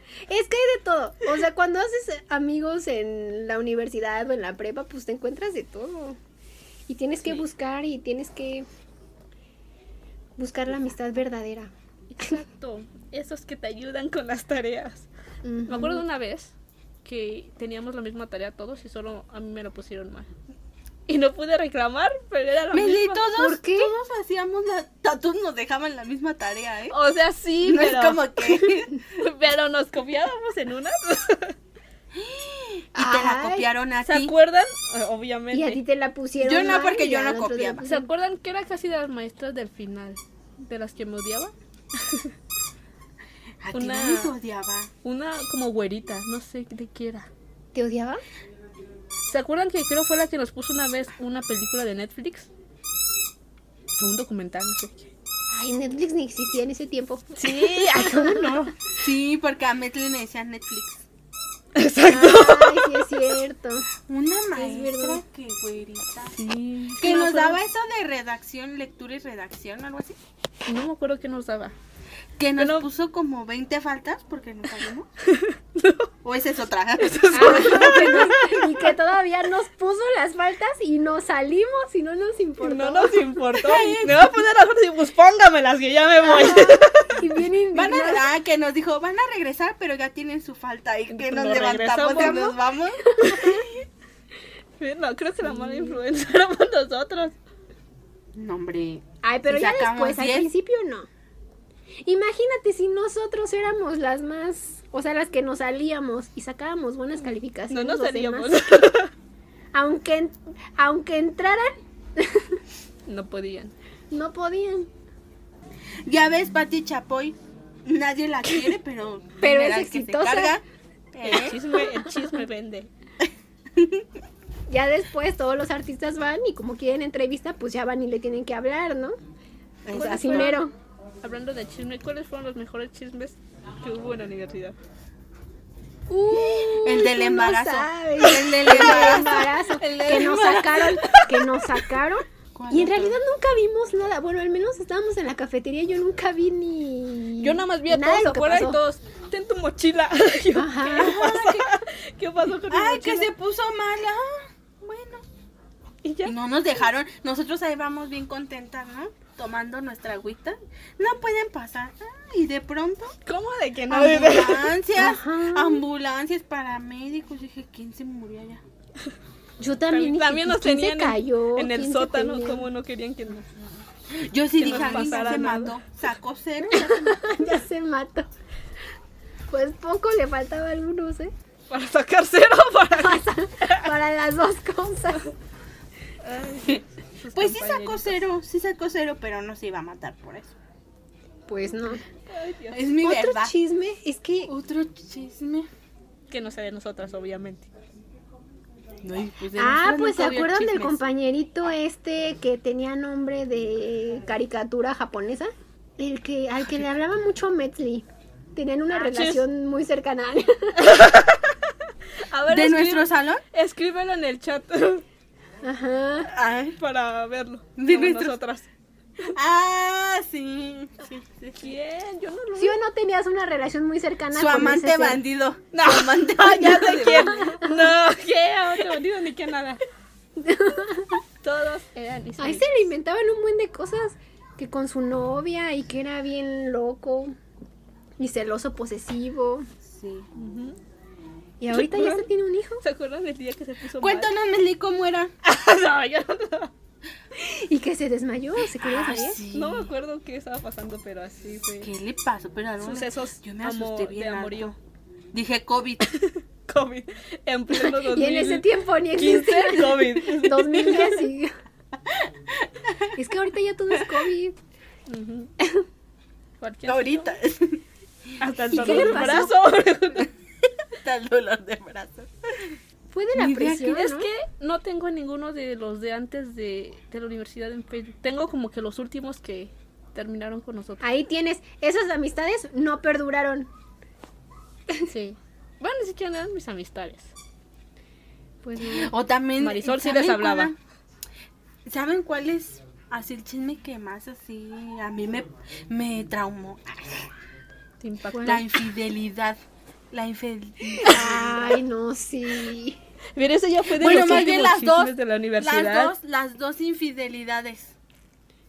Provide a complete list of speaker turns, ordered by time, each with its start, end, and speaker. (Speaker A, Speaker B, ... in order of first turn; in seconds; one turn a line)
Speaker A: 0.3-6.2
Speaker A: 6.9-8.7
Speaker A: 10.4-11.7
Speaker B: 12.1-15.1
Speaker A: 15.4-16.0
Speaker B: 15.7-16.5
Speaker B: 17.1-20.3
Speaker B: 21.1-23.3
Speaker C: 22.7-27.0
Speaker A: 23.4-23.9
Speaker B: 26.9-31.6
Speaker C: 27.6-29.0
Speaker C: 32.1-34.3
Speaker A: 33.0-33.7
Speaker B: 34.0-35.8
Speaker A: 35.5-38.1
Speaker C: 36.4-37.8
Speaker B: 37.9-42.3
Speaker C: 43.6-44.9
Speaker B: 43.7-44.3
Speaker B: 45.0-47.3
Speaker A: 47.7-48.2
Speaker B: 49.3-52.5
Speaker B: 54.0-55.1
Speaker A: 55.5-58.7
Speaker B: 57.4-58.8
Speaker C: 59.0-61.0
Speaker B: 61.8-63.2
Speaker A: 62.1-63.9
Speaker C: 64.1-66.4
Speaker A: 64.5-65.2
Speaker B: 66.3-67.5
Speaker C: 67.0-70.2
Speaker B: 70.7-71.8
Speaker C: 72.4-75.1
Speaker B: 72.6-72.9
Speaker B: 75.2-76.1
Speaker C: 76.2-78.6
Speaker B: 77.0-78.7
Speaker A: 77.3-83.3
Speaker B: 82.6-87.3
Speaker C: 83.6-84.4
Speaker A: 86.2-88.3
Speaker C: 87.7-93.6
Speaker B: 91.1-92.6
Speaker A: 92.2-93.7
Speaker B: 93.2-93.6
Speaker B: 94.8-97.3
Speaker A: 95.5-96.0
Speaker C: 98.3-100.5
Speaker A: 99.2-101.1
Speaker A: 102.0-108.8
Speaker B: 107.7-109.1
Speaker A: 109.7-112.6
Speaker B: 113.1-113.7
Speaker A: 114.1-114.9
Speaker C: 116.1-121.6
Speaker A: 119.4-120.6
Speaker B: 121.2-122.9
Speaker A: 121.8-122.2
Speaker C: 123.8-124.1
Speaker A: 124.7-129.2
Speaker C: 129.9-130.6
Speaker A: 129.9-130.7
Speaker B: 130.0-130.6
Speaker B: 131.2-134.8
Speaker A: 136.1-148.8
Speaker C: 136.6-139.5
Speaker B: 138.7-141.8
Speaker C: 140.1-141.1
Speaker C: 142.6-143.2
Speaker B: 147.4-153.3
Speaker A: 150.6-151.2
Speaker C: 150.9-151.7
Speaker C: 152.7-155.2
Speaker B: 156.0-156.3
Speaker C: 156.2-163.2
Speaker B: 163.3-164.8
Speaker C: 163.9-168.6
Speaker A: 165.0-165.8
Speaker A: 169.6-172.7
Speaker B: 169.9-173.5
Speaker C: 174.1-177.3
Speaker B: 174.6-175.8
Speaker A: 174.6-175.5
Speaker A: 176.7-178.3
Speaker A: 179.5-181.3
Speaker B: 181.7-183.9
Speaker A: 183.0-185.3
Speaker B: 186.2-188.2
Speaker C: 187.3-190.6
Speaker A: 191.5-192.0
Speaker B: 192.3-192.8
Speaker C: 192.7-193.5
Speaker A: 193.0-194.5
Speaker C: 194.5-195.7
Speaker B: 196.3-197.7
Speaker C: 199.0-201.0
Speaker A: 199.6-210.9
Speaker B: 208.9-209.4
Speaker B: 210.8-211.7
Speaker B: 212.3-215.0
Speaker C: 212.5-213.4
Speaker A: 215.6-216.3
Speaker C: 216.3-216.8
Speaker B: 216.8-218.7
Speaker C: 217.8-218.4
Speaker C: 219.3-221.7
Speaker B: 221.6-222.8
Speaker A: 222.6-225.2
Speaker C: 224.3-227.5
Speaker B: 225.7-229.8
Speaker A: 230.4-231.2
Speaker B: 231.4-232.9
Speaker A: 232.4-237.4
Speaker A: 238.2-239.7
Speaker C: 239.8-240.3
Speaker B: 240.3-240.8
Speaker A: 241.6-242.8
Speaker B: 241.7-242.3
Speaker B: 242.8-244.3
Speaker C: 244.0-245.3
Speaker B: 245.4-246.7
Speaker A: 247.4-249.4
Speaker C: 248.8-249.9
Speaker B: 249.5-251.9
Speaker C: 251.8-254.8
Speaker B: 252.8-254.7
Speaker C: 255.3-256.1
Speaker B: 256.1-261.3
Speaker A: 257.7-261.5
Speaker C: 262.1-263.1
Speaker A: 263.1-264.6
Speaker B: 265.1-265.5
Speaker B: 266.6-267.3
Speaker C: 266.9-267.8
Speaker B: 268.4-270.3
Speaker A: 268.7-269.6
Speaker C: 268.8-269.4
Speaker C: 270.9-272.7
Speaker A: 273.1-274.3
Speaker C: 273.4-273.9
Speaker B: 273.7-281.0
Speaker A: 281.0-283.7
Speaker B: 285.0-287.3
Speaker A: 288.6-289.1
Speaker C: 288.8-290.8
Speaker B: 289.6-290.7
Speaker C: 291.9-297.3
Speaker B: 298.0-298.6
Speaker A: 298.3-298.6
Speaker C: 298.4-299.6
Speaker C: 300.1-301.8
Speaker A: 301.0-303.0
Speaker B: 303.4-306.1
Speaker C: 303.9-308.0